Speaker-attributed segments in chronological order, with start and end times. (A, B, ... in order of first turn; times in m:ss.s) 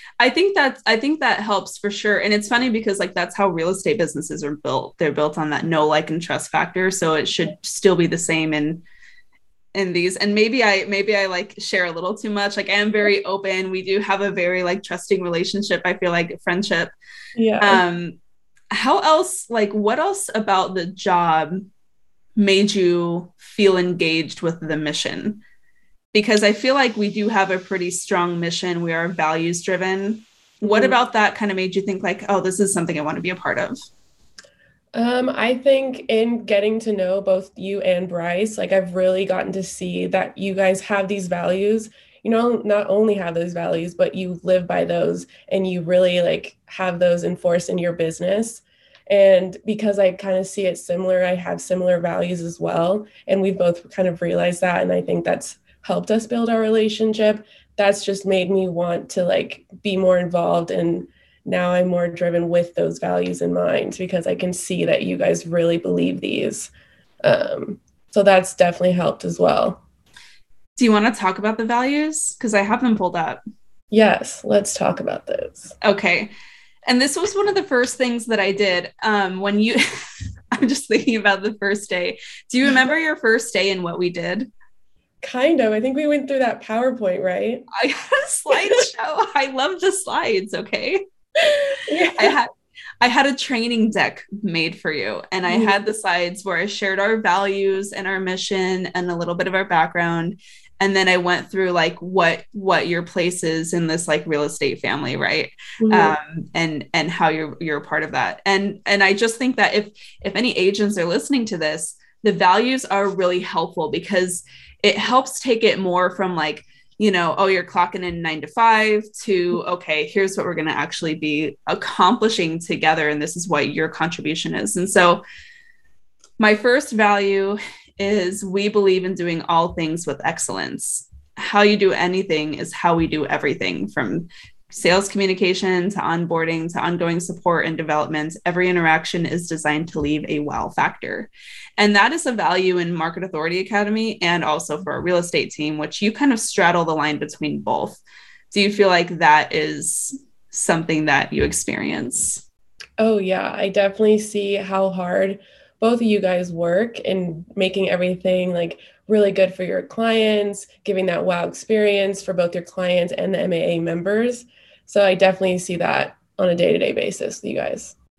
0:00.2-0:08.8 A
0:09.7-0:16.9 A
0:17.4-0:17.8 B
0:17.6-0:18.2 A
0:18.7-0:21.7 A
0:22.4-0:25.4 A
0:26.1-0:33.8 A
0:30.6-0:30.9 B
0:35.0-1:06.7 B
1:07.2-1:09.8 B
1:10.8-1:13.4 A
1:13.9-1:15.7 B
1:15.8-1:16.3 A
1:16.9-1:19.8 A
1:20.5-1:24.5 A
1:25.2-1:27.6 B
1:27.7-1:31.0 A
1:31.8-1:32.3 B
1:32.0-2:05.2 A
1:35.5-1:35.7 B
1:45.8-1:46.2 B
2:06.4-2:32.4 A
2:33.0-2:47.9 B